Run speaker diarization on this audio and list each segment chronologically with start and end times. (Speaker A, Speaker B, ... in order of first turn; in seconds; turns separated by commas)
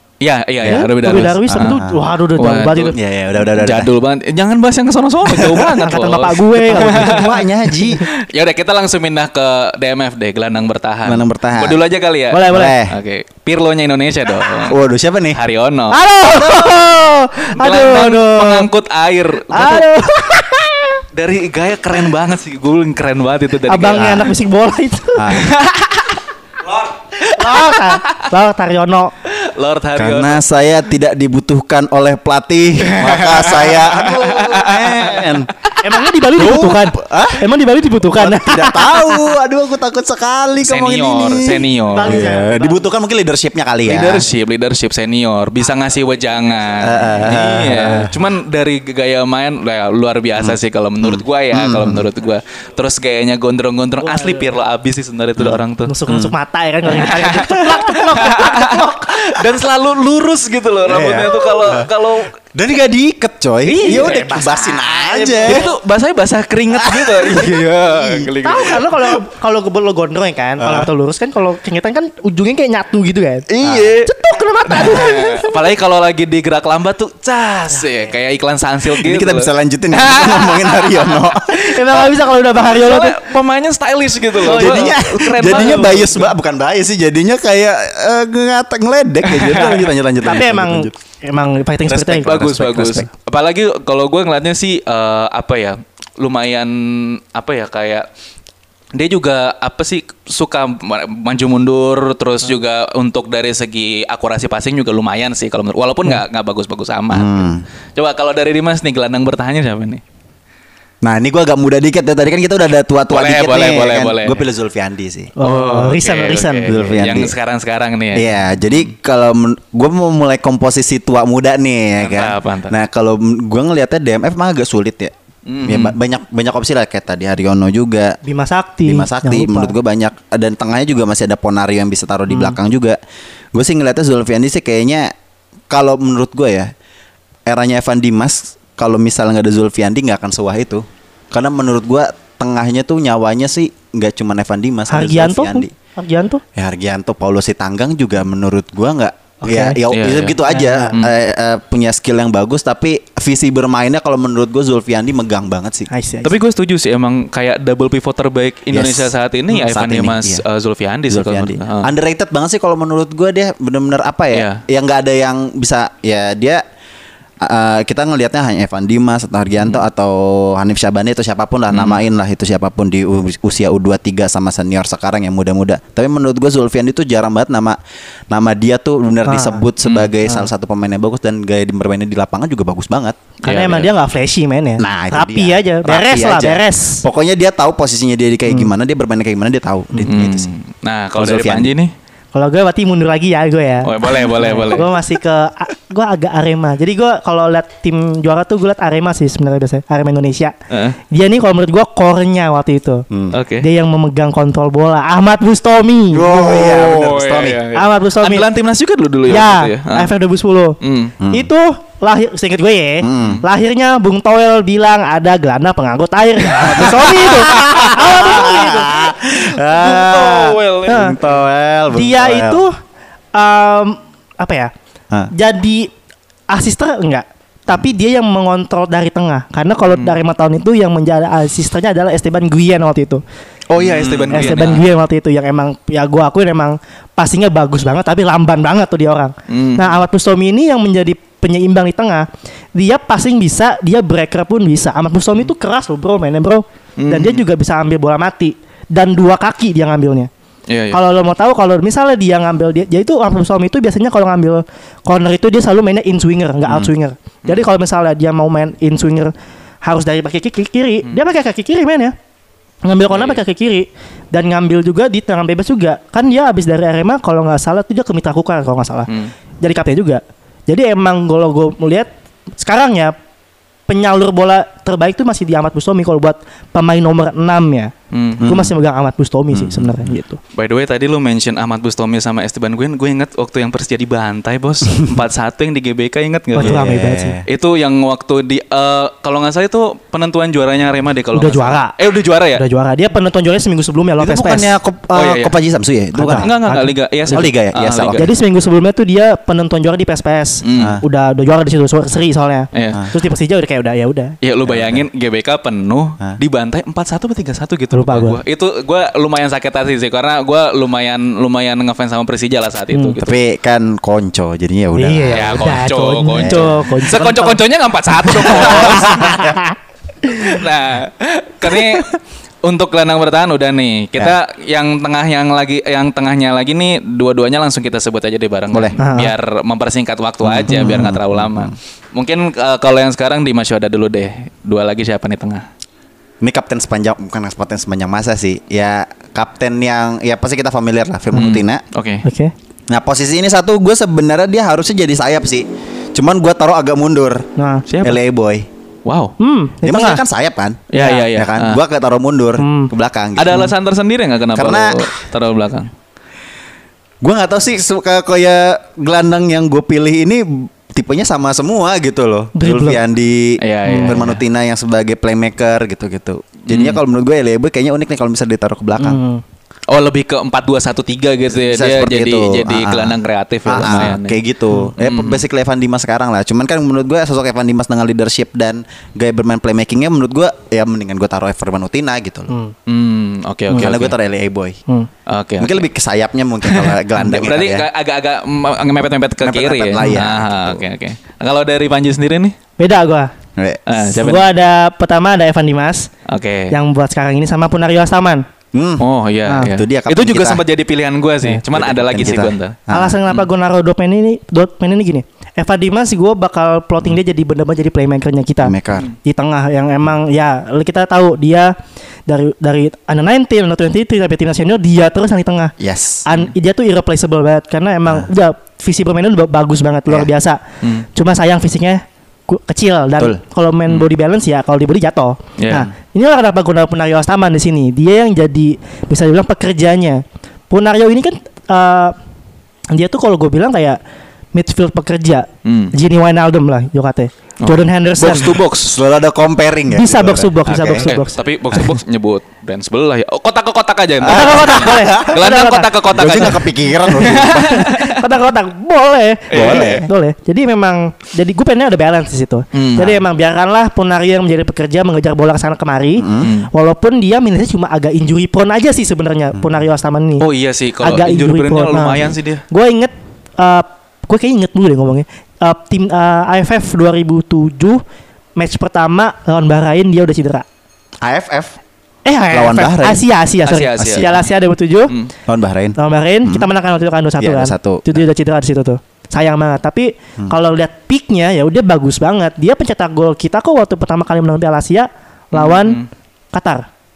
Speaker A: 0.2-1.8, Speaker B: 0.6-2.0, Speaker C: 0.7-3.0, Speaker A: 2.4-7.3, Speaker B: 2.9-3.9, Speaker C: 5.3-8.0, Speaker B: 6.7-8.0, Speaker A: 8.1-14.8, Speaker B: 11.0-11.8, Speaker C: 12.3-12.8, Speaker B: 12.5-13.0, Speaker B: 14.7-15.4, Speaker A: 15.3-16.0, Speaker C: 15.9-18.7, Speaker A: 17.6-19.9, Speaker C: 19.5-21.0, Speaker A: 21.1-24.3, Speaker C: 23.7-25.5, Speaker B: 23.9-24.3, Speaker B: 25.1-25.5, Speaker A: 25.3-28.3, Speaker C: 27.2-29.1, Speaker A: 29.3-30.4, Speaker B: 29.9-35.5, Speaker A: 32.8-35.8, Speaker C: 35.8-39.3, Speaker B: 36.3-37.5, Speaker B: 38.1-44.3, Speaker A: 40.6-42.3, Speaker C: 41.9-42.8, Speaker A: 43.9-55.9, Speaker B: 46.8-48.2, Speaker B: 50.4-52.1, Speaker C: 54.0-54.5, Speaker B: 55.4-56.3, Speaker C: 55.9-59.3, Speaker A: 56.9-62.3, Speaker B: 60.9-61.9, Speaker B: 62.4-65.7, Speaker A: 63.6-64.5, Speaker C: 63.8-65.7, Speaker A: 65.4-69.1, Speaker B: 66.7-68.3, Speaker C: 68.4-73.5, Speaker B: 70.6-70.9, Speaker A: 73.6-74.0, Speaker B: 73.6-74.1, Speaker C: 74.0-75.6, Speaker A: 74.7-81.3, Speaker B: 78.9-82.1, Speaker C: 81.5-83.3, Speaker A: 82.6-86.3, Speaker B: 84.4-90.9, Speaker C: 84.4-86.0, Speaker A: 89.2-89.9, Speaker C: 89.6-93.1, Speaker A: 91.9-98.1, Speaker A: 98.9-110.0, Speaker B: 107.1-107.6, Speaker B: 111.0-115.3, Speaker A: 113.1-114.4, Speaker C: 115.4-116.7, Speaker A: 115.4-118.3, Speaker B: 116.6-117.3, Speaker B: 118.1-125.1, Speaker A: 122.0-122.8, Speaker A: 125.5-126.0, Speaker B: 125.6-128.2, Speaker C: 128.2-129.7, Speaker B: 128.8-133.0, Speaker C: 132.3-132.6, Speaker B: 133.5-135.1, Speaker B: 135.7-136.7, Speaker B: 137.5-145.7, Speaker C: 144.9-146.4, Speaker B: 146.5-155.9, Speaker C: 149.4-149.8, Speaker A: 149.9-150.4, Speaker C: 150.5-151.0, Speaker C: 155.9-156.3, Speaker A: 156.2-161.9, Speaker B: 158.7-160.4, Speaker B: 161.1-166.6, Speaker A: 164.3-164.6, Speaker B: 167.4-177.8, Speaker A: 171.7-172.0, Speaker B: 178.3-183.2, Speaker C: 179.2-179.6, Speaker A: 179.8-180.1, Speaker C: 183.4-187.0, Speaker A: 183.4-183.9, Speaker B: 184.8-190.5, Speaker A: 190.0-191.9, Speaker B: 191.2-191.7, Speaker C: 192.3-200.5, Speaker A: 193.8-194.9, Speaker A: 200.7-201.0, Speaker C: 201.1-203.1, Speaker B: 203.1-203.4, Speaker A: 203.3-203.7, Speaker C: 203.6-206.7, Speaker B: 206.1-207.6, Speaker A: 206.4-210.1, Speaker C: 207.7-208.4, Speaker C: 209.3-210.8, Speaker A: 210.8-211.1, Speaker B: 211.2-211.5, Speaker C: 211.3-219.1, Speaker B: 213.0-213.4, Speaker B: 216.5-222.6, Speaker A: 219.5-221.4, Speaker C: 220.9-221.2, Speaker C: 221.9-222.7, Speaker C: 223.3-224.7, Speaker C: 225.3-225.9, Speaker C: 226.5-233.2, Speaker A: 233.7-234.8, Speaker B: 233.8-234.6, Speaker C: 234.3-250.3, Speaker A: 239.5-239.9, Speaker A: 247.0-247.4, Speaker A: 250.7-251.0, Speaker C: 250.9-259.3, Speaker C: 259.8-262.1, Speaker C: 262.8-269.1, Speaker A: 263.1-263.4, Speaker C: 269.6-273.1, Speaker C: 273.9-277.9, Speaker A: 278.1-278.4, Speaker B: 278.4-278.7, Speaker C: 278.4-280.4, Speaker B: 279.5-280.1, Speaker A: 280.5-286.9, Speaker C: 286.5-287.4, Speaker B: 286.6-287.4, Speaker A: 287.4-292.6, Speaker C: 291.3-291.9, Speaker C: 292.6-294.7, Speaker B: 294.2-296.5, Speaker A: 295.1-295.5, Speaker C: 296.1-297.4, Speaker A: 296.4-298.3, Speaker B: 297.3-298.3, Speaker C: 298.1-304.3, Speaker A: 300.6-301.0, Speaker B: 300.7-301.0, Speaker A: 302.7-303.0, Speaker A: 304.4-313.4, Speaker B: 304.6-305.0, Speaker C: 307.9-308.4, Speaker B: 313.2-315.7, Speaker C: 314.9-317.6, Speaker A: 315.3-319.4, Speaker B: 316.3-316.9, Speaker C: 318.2-319.7, Speaker B: 318.4-319.6, Speaker A: 320.2-335.7, Speaker C: 329.0-329.3, Speaker B: 330.4-331.7, Speaker B: 336.4-341.8, Speaker A: 341.3-342.2, Speaker C: 342.2-342.5, Speaker B: 342.9-347.4, Speaker C: 347.6-347.8, Speaker A: 347.9-348.2, Speaker B: 348.0-348.7, Speaker A: 349.0-349.3, Speaker C: 349.4-350.2, Speaker B: 349.8-353.7, Speaker A: 350.9-351.8, Speaker C: 350.9-351.2, Speaker C: 352.6-352.9, Speaker A: 353.4-355.9, Speaker B: 354.5-355.1, Speaker B: 357.2-369.2, Speaker C: 362.5-363.0, Speaker A: 363.6-364.4, Speaker C: 363.9-364.2, Speaker A: 366.7-367.0, Speaker C: 369.0-369.4, Speaker A: 369.9-374.4, Speaker B: 371.5-382.5, Speaker A: 375.0-375.4, Speaker A: 382.9-384.1, Speaker B: 383.7-384.8, Speaker A: 385.3-385.9, Speaker B: 385.6-387.9, Speaker A: 386.7-392.5, Speaker B: 389.4-390.8, Speaker C: 392.8-393.3, Speaker B: 393.6-393.8, Speaker A: 393.9-394.5, Speaker C: 394.1-396.1, Speaker A: 396.3-396.7, Speaker C: 396.7-398.4, Speaker B: 398.7-400.6, Speaker A: 399.0-403.4, Speaker C: 399.5-399.7, Speaker B: 401.7-403.2, Speaker C: 402.9-411.7, Speaker B: 408.6-409.1, Speaker C: 412.3-420.6, Speaker B: 415.8-416.2, Speaker C: 421.1-432.1, Speaker A: 425.6-425.9, Speaker C: 432.9-434.0, Speaker C: 434.5-438.5, Speaker A: 435.6-435.9, Speaker A: 437.6-439.0, Speaker B: 438.8-441.1, Speaker C: 439.9-441.8, Speaker A: 441.0-448.2, Speaker B: 444.2-445.4, Speaker C: 444.2-446.5, Speaker B: 446.1-447.9, Speaker C: 447.0-460.5, Speaker A: 449.5-450.0, Speaker B: 449.5-450.1, Speaker A: 452.7-453.2, Speaker B: 456.2-456.5, Speaker A: 456.4-456.7, Speaker A: 460.4-462.6, Speaker C: 461.0-468.0, Speaker C: 468.6-470.6, Speaker B: 471.2-471.8, Speaker C: 472.2-475.1, Speaker B: 472.5-473.2, Speaker A: 473.6-474.3, Speaker B: 474.0-474.4, Speaker B: 475.5-476.7, Speaker C: 475.9-486.0, Speaker B: 477.4-478.2, Speaker A: 485.5-486.1, Speaker C: 486.5-486.9